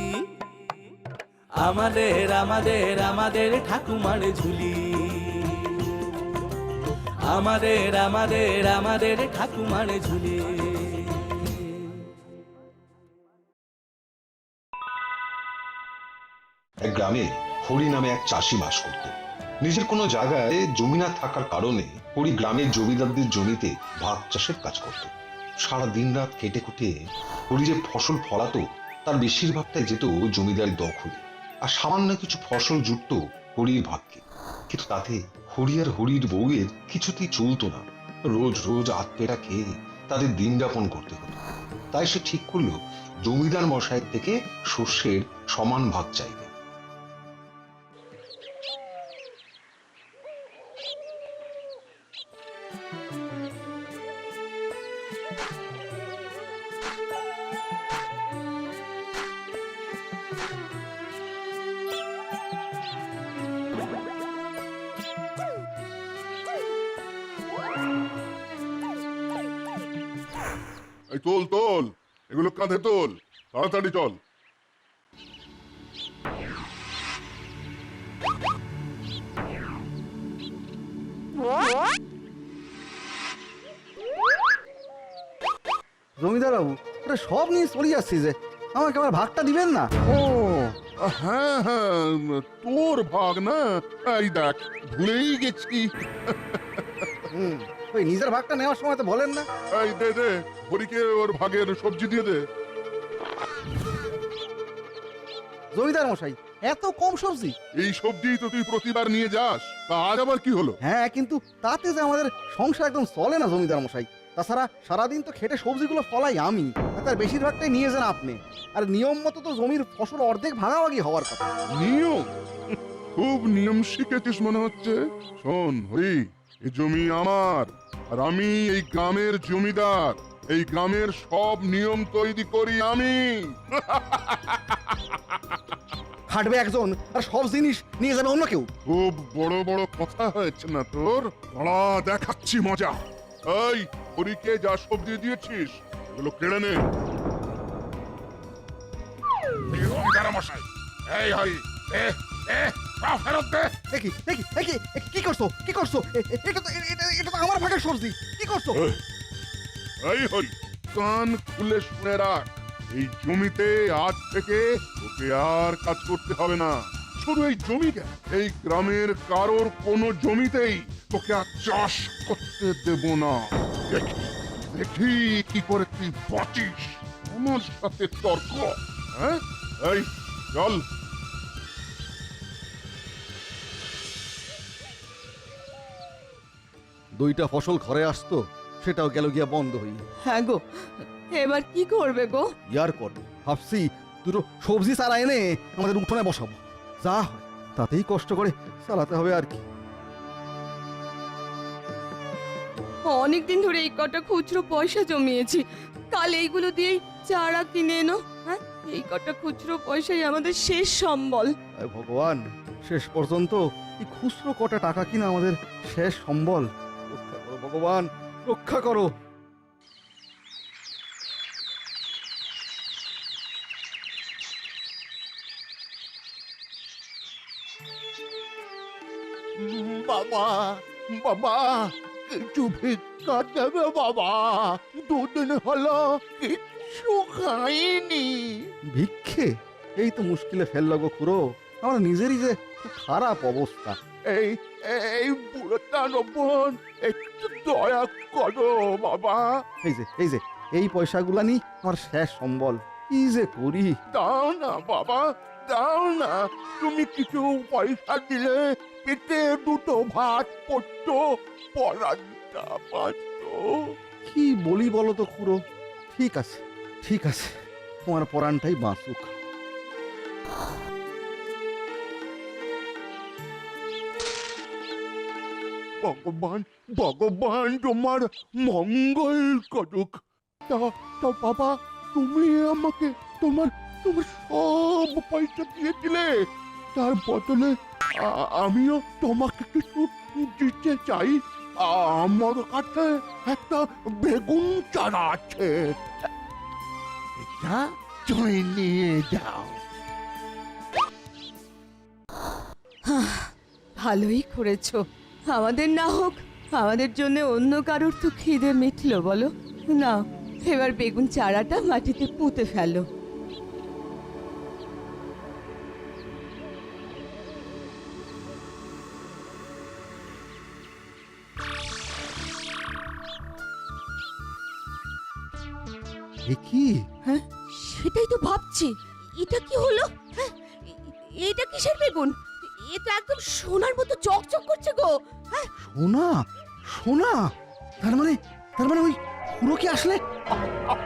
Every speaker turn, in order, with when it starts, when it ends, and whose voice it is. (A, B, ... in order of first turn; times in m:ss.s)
0:01.6-0:04.7 A
0:07.3-0:10.9 A
0:16.8-0:19.0 B
0:19.6-0:25.1 B
0:25.6-0:26.9 B
0:27.5-0:39.6 B
0:40.1-0:41.3 B
0:41.9-0:46.5 B
1:11.1-1:14.2 C
1:26.2-1:29.9 D
1:30.0-1:37.1 C
1:37.3-1:39.5 D
1:39.7-1:42.4 C
1:45.7-1:47.5 D
1:47.8-1:50.8 C
1:50.8-2:01.5 D
2:01.7-2:15.6 C
2:16.3-2:18.7 D
2:18.8-2:26.8 C
2:29.7-2:33.7 C
2:33.9-2:38.9 D
2:40.0-3:00.8 C
3:07.2-3:10.0 D
3:10.2-3:10.6 E
3:11.3-3:12.5 E
3:12.7-3:19.6 D
3:23.1-3:31.5 E
3:31.8-3:39.1 D
3:49.6-3:58.7 F
3:58.9-4:04.0 D
4:04.3-4:09.5 F
4:09.8-4:13.9 D
4:14.1-4:21.2 F
4:21.7-4:23.7 F
4:24.2-4:25.6 D
4:26.1-4:29.3 D
4:36.0-4:46.3 F
4:46.9-4:56.0 F
4:57.4-4:59.8 F
5:03.0-5:13.0 E
5:26.5-5:27.0 D
5:27.2-5:35.7 E
5:35.8-5:40.2 D